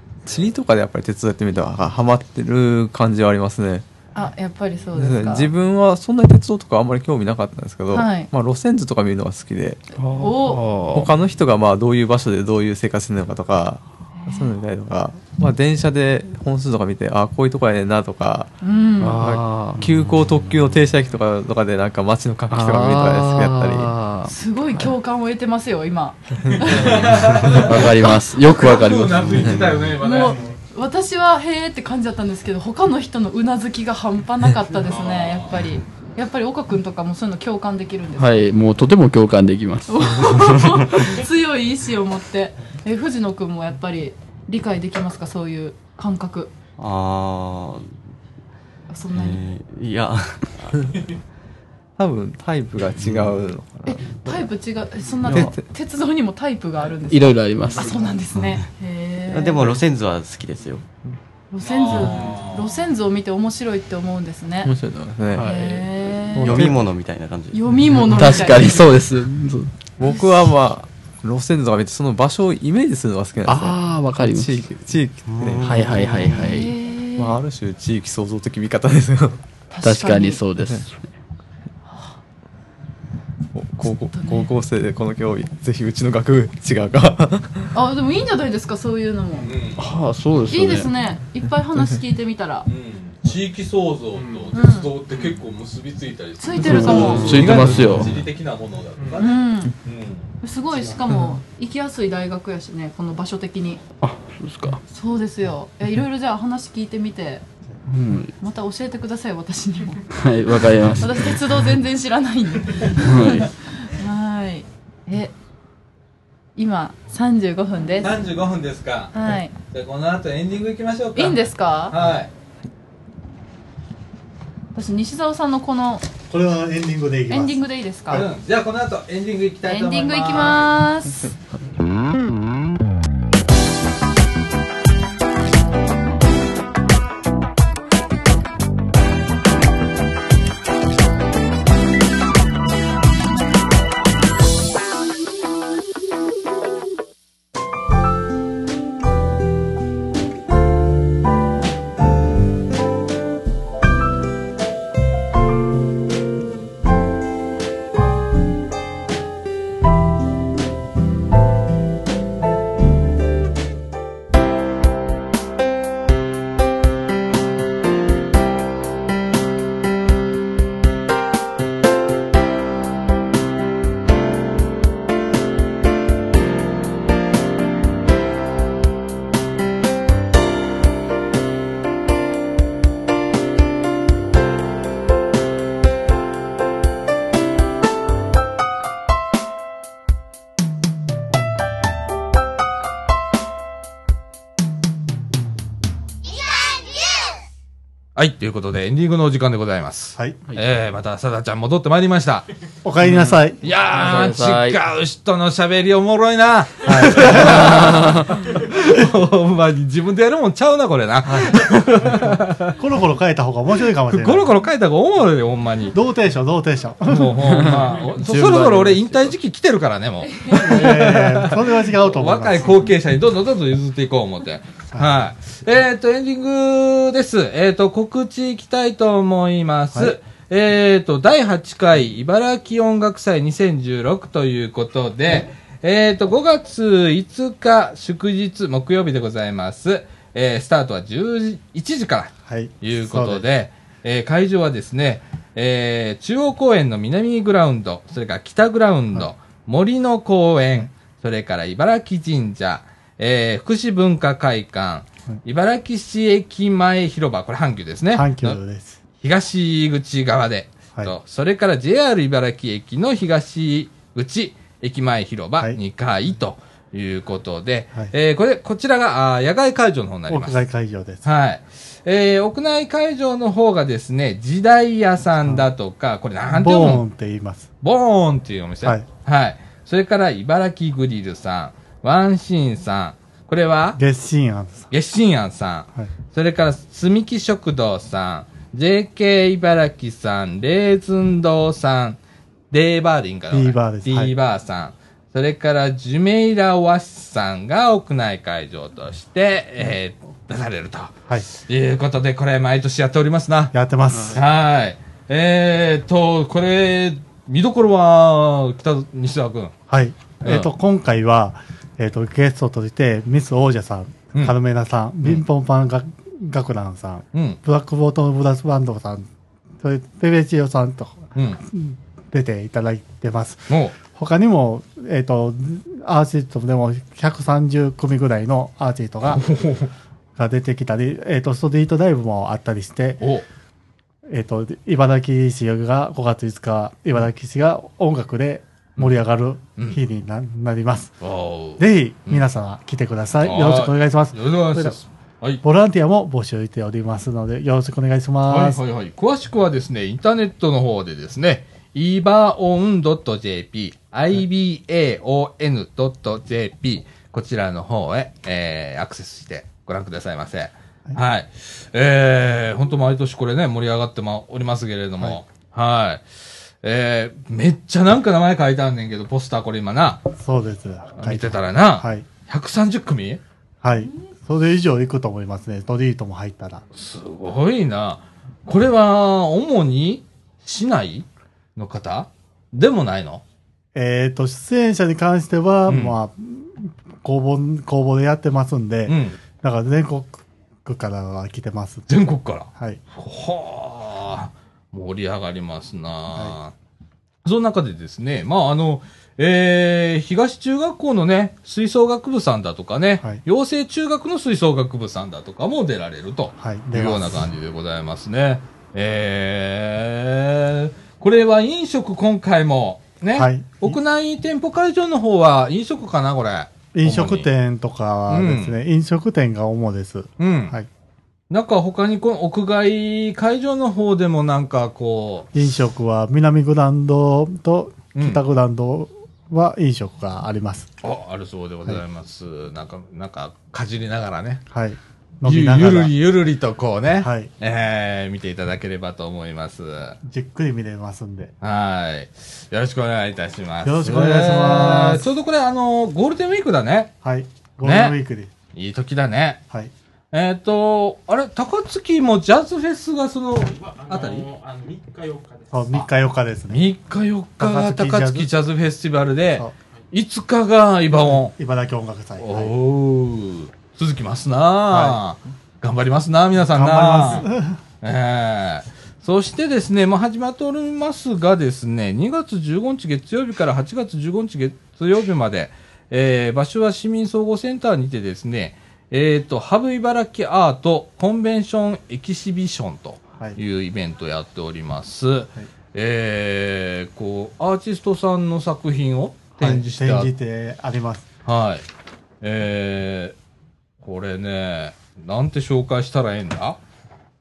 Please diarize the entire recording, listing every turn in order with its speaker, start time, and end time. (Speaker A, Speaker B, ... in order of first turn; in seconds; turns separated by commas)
Speaker A: 0.2-3.9, Speaker B: 4.1-5.5, Speaker A: 4.9-9.9, Speaker B: 7.9-8.3, Speaker C: 9.9-11.1, Speaker B: 10.1-10.7, Speaker A: 10.9-18.5, Speaker B: 14.2-14.5, Speaker B: 18.6-19.2, Speaker C: 19.0-19.9, Speaker A: 19.1-23.9, Speaker C: 22.5-24.3, Speaker B: 24.2-27.6, Speaker D: 26.6-30.4, Speaker C: 27.4-29.6, Speaker B: 30.0-38.5, Speaker D: 34.8-35.7, Speaker C: 38.2-41.1, Speaker B: 39.9-46.5, Speaker E: 46.8-48.0, Speaker B: 48.9-49.4, Speaker E: 49.1-51.2, Speaker A: 52.0-54.4, Speaker E: 53.0-53.4, Speaker B: 53.9-59.8, Speaker E: 55.2-55.5, Speaker A: 55.3-55.6, Speaker C: 57.1-58.0, Speaker E: 58.3-58.7, Speaker E: 59.3-60.9, Speaker B: 61.5-64.7, Speaker D: 61.6-62.7, Speaker A: 64.6-65.5, Speaker C: 65.3-66.6, Speaker B: 65.3-66.7, Speaker E: 66.4-68.0, Speaker B: 67.5-68.8, Speaker C: 68.1-69.8, Speaker A: 70.0-75.9, Speaker C: 73.5-74.6, Speaker E: 75.2-76.6, Speaker C: 75.6-76.7, Speaker B: 76.3-77.4, Speaker A: 77.2-79.4, Speaker B: 79.7-80.4, Speaker C: 79.8-81.0, Speaker B: 81.9-82.2, Speaker A: 83.5-87.7, Speaker B: 83.8-84.5, Speaker B: 87.7-89.5, Speaker D: 89.4-89.9, Speaker C: 89.8-90.9, Speaker B: 90.5-92.7, Speaker D: 92.7-100.3, Speaker F: 94.2-94.5, Speaker B: 94.5-94.9, Speaker B: 96.4-97.6, Speaker C: 96.6-98.2, Speaker A: 96.8-98.0, Speaker B: 99.2-99.7, Speaker B: 100.4-103.8, Speaker G: 100.7-101.0, Speaker C: 104.0-104.8, Speaker B: 104.9-107.4, Speaker C: 107.9-108.3, Speaker B: 108.4-110.1, Speaker C: 110.1-111.4, Speaker B: 111.0-115.3, Speaker C: 112.9-113.5, Speaker B: 116.5-118.2, Speaker D: 118.0-122.3, Speaker B: 119.1-119.5, Speaker B: 121.1-122.0, Speaker B: 124.7-126.1, Speaker G: 126.3-127.6, Speaker B: 127.3-128.3, Speaker D: 128.1-130.7, Speaker B: 129.7-131.3, Speaker D: 198.1-202.4, Speaker G: 202.8-203.6, Speaker C: 203.1-203.3, Speaker D: 203.6-212.8, Speaker C: 203.9-204.8, Speaker G: 206.8-208.0, Speaker C: 207.4-208.4, Speaker G: 211.2-214.5, Speaker D: 214.1-216.0, Speaker G: 215.9-217.6, Speaker D: 217.1-258.6, Speaker C: 217.4-219.3, Speaker G: 220.5-222.8, Speaker G: 224.9-225.2, Speaker G: 242.5-243.4, Speaker G: 258.1-259.0, Speaker D: 259.2-270.6, Speaker G: 270.3-271.2, Speaker D: 271.2-277.0, Speaker G: 276.5-277.7, Speaker D: 277.8-284.0, Speaker G: 283.9-284.9, Speaker D: 284.9-292.2, Speaker D: 292.7-303.7, Speaker G: 293.5-294.3, Speaker G: 303.7-304.4, Speaker D: 304.3-309.7, Speaker G: 309.9-319.3, Speaker D: 310.4-310.7, Speaker D: 317.3-317.6, Speaker G: 319.8-329.5, Speaker D: 321.3-321.6, Speaker D: 323.7-323.9, Speaker D: 329.2-329.9, Speaker G: 330.4-333.2, Speaker D: 333.2-333.4, Speaker G: 334.3-341.2, Speaker D: 341.2-342.4, Speaker G: 341.8-345.0, Speaker D: 343.4-345.6, Speaker G: 345.6-348.8, Speaker D: 348.5-370.2, Speaker G: 370.4-372.2, Speaker D: 371.2-373.4, Speaker G: 373.8-376.8, Speaker D: 376.9-383.4, Speaker G: 383.9-392.1, Speaker D: 385.9-386.1, Speaker D: 389.1-389.4, Speaker D: 392.1-396.7, Speaker D: 397.4-417.5, Speaker G: 406.6-407.4, Speaker G: 413.3-414.0, Speaker G: 416.9-420.9, Speaker D: 418.3-418.8, Speaker D: 420.4-420.7, Speaker D: 421.5-425.5, Speaker G: 425.5-430.9, Speaker D: 428.1-428.4, Speaker D: 431.0-434.6, Speaker G: 434.7-436.1, Speaker D: 435.4-440.2, Speaker G: 437.2-437.5, Speaker G: 440.2-441.5, Speaker D: 441.6-447.1, Speaker G: 443.8-445.3, Speaker G: 447.2-448.5, Speaker D: 447.8-448.2, Speaker D: 448.7-449.6, Speaker D: 450.3-454.5, Speaker F: 453.6-456.0, Speaker G: 455.7-456.9, Speaker D: 456.7-461.5, Speaker G: 457.6-458.5, Speaker G: 461.1-462.7, Speaker D: 462.4-467.5, Speaker G: 464.9-465.2, Speaker G: 466.6-467.8, Speaker D: 468.0-490.3, Speaker G: 489.6-491.3, Speaker D: 491.4-491.9, Speaker D: 492.4-493.4, Speaker D: 494.0-496.8